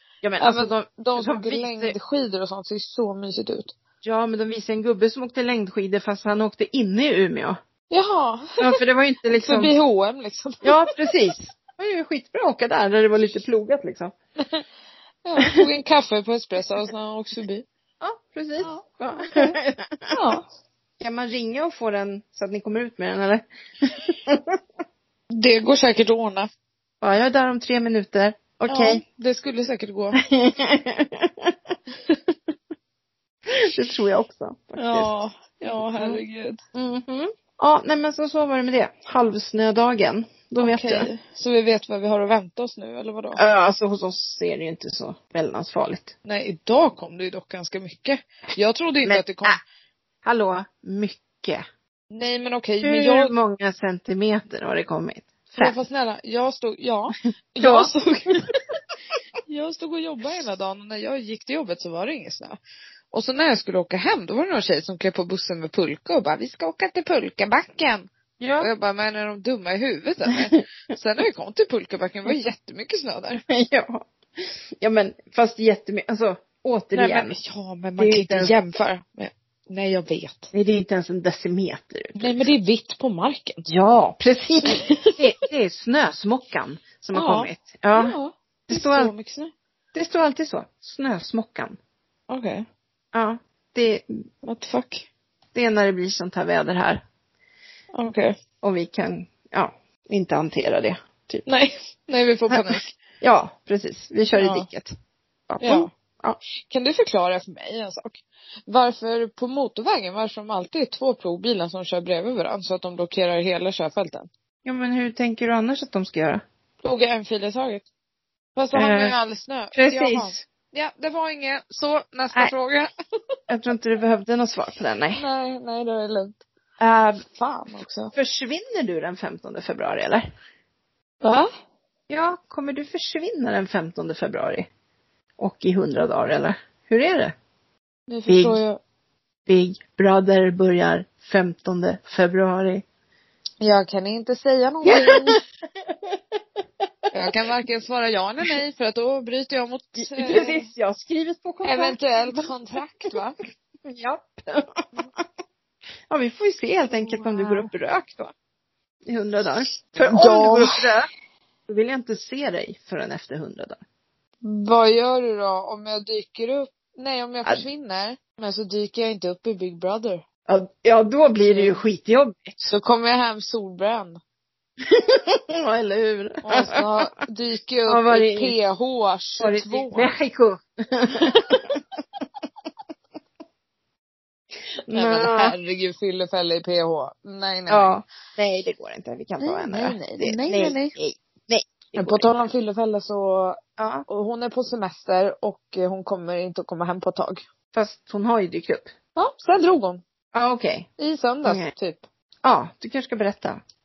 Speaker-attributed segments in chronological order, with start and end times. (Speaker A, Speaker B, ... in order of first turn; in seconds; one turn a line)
Speaker A: 0.2-2.0
Speaker B: 0.4-3.7
Speaker A: 4.0-7.6
Speaker B: 7.9-8.8
Speaker A: 8.6-9.7
Speaker B: 9.3-10.9
Speaker A: 10.6-14.1
Speaker B: 15.2-17.6
Speaker A: 18.0-20.1
Speaker B: 20.1-20.4
Speaker A: 21.0-24.6
Speaker B: 25.3-26.5
Speaker A: 27.0-29.0
Speaker B: 28.7-30.2
Speaker A: 30.2-31.5
Speaker A: 33.5-35.1
Speaker B: 34.8-36.6
Speaker A: 36.8-41.1
Speaker B: 40.6-43.4
Speaker A: 43.4-46.1
Speaker B: 46.2-49.6
Speaker A: 49.0-49.6
Speaker A: 50.2-51.6
Speaker B: 52.1-53.3
Speaker A: 52.8-55.8
Speaker B: 55.5-58.5
Speaker A: 57.6-57.9
Speaker B: 59.5-62.6
Speaker B: 63.1-68.1
Speaker A: 68.4-68.7
Speaker B: 68.6-73.4
Speaker A: 73.5-77.4
Speaker B: 76.9-80.5
Speaker A: 78.0-78.5
Speaker A: 80.5-82.4
Speaker B: 82.2-83.6
Speaker A: 83.7-88.2
Speaker B: 84.7-85.2
Speaker B: 87.1-89.5
Speaker A: 88.7-89.1
Speaker A: 89.9-91.8
Speaker B: 92.3-92.7
Speaker A: 93.1-94.2
Speaker B: 94.4-95.1
Speaker A: 95.5-97.0
Speaker B: 97.9-98.3
Speaker A: 98.6-101.5
Speaker B: 101.5-102.9
Speaker A: 102.5-104.9
Speaker B: 104.3-104.7
Speaker A: 105.5-106.4
Speaker B: 105.6-105.9
Speaker B: 106.7-114.3
Speaker A: 114.6-116.4
Speaker B: 116.8-117.8
Speaker B: 118.6-122.9
Speaker A: 118.7-119.2
Speaker A: 119.7-120.4
Speaker A: 123.5-125.2
Speaker B: 125.2-126.4
Speaker A: 126.8-127.2
Speaker B: 127.2-128.1
Speaker A: 128.1-130.3
Speaker B: 131.2-131.5
Speaker A: 132.1-134.7
Speaker A: 135.4-137.3
Speaker B: 138.1-138.8
Speaker A: 138.3-138.6
Speaker A: 139.5-142.8
Speaker B: 143.6-145.4
Speaker A: 144.8-145.4
Speaker B: 147.1-150.7
Speaker A: 150.0-152.5
Speaker B: 151.6-153.4
Speaker A: 153.8-154.9
Speaker A: 156.1-158.3
Speaker B: 156.9-157.7
Speaker A: 159.1-161.1
Speaker B: 160.0-160.8
Speaker A: 161.7-163.8
Speaker B: 164.4-170.2
Speaker A: 170.5-172.7
Speaker B: 171.4-171.8
Speaker B: 172.7-174.2
Speaker A: 174.8-177.1
Speaker B: 176.4-180.1
Speaker A: 177.9-178.6
Speaker A: 179.4-181.8
Speaker A: 184.8-185.6
Speaker B: 184.9-187.9
Speaker A: 187.7-192.3
Speaker B: 189.4-190.9
Speaker B: 192.0-197.4
Speaker A: 193.8-194.1
Speaker A: 197.7-198.9
Speaker B: 199.2-200.0
Speaker A: 200.3-200.9
Speaker B: 201.0-202.1
Speaker A: 201.4-201.7
Speaker A: 202.4-203.6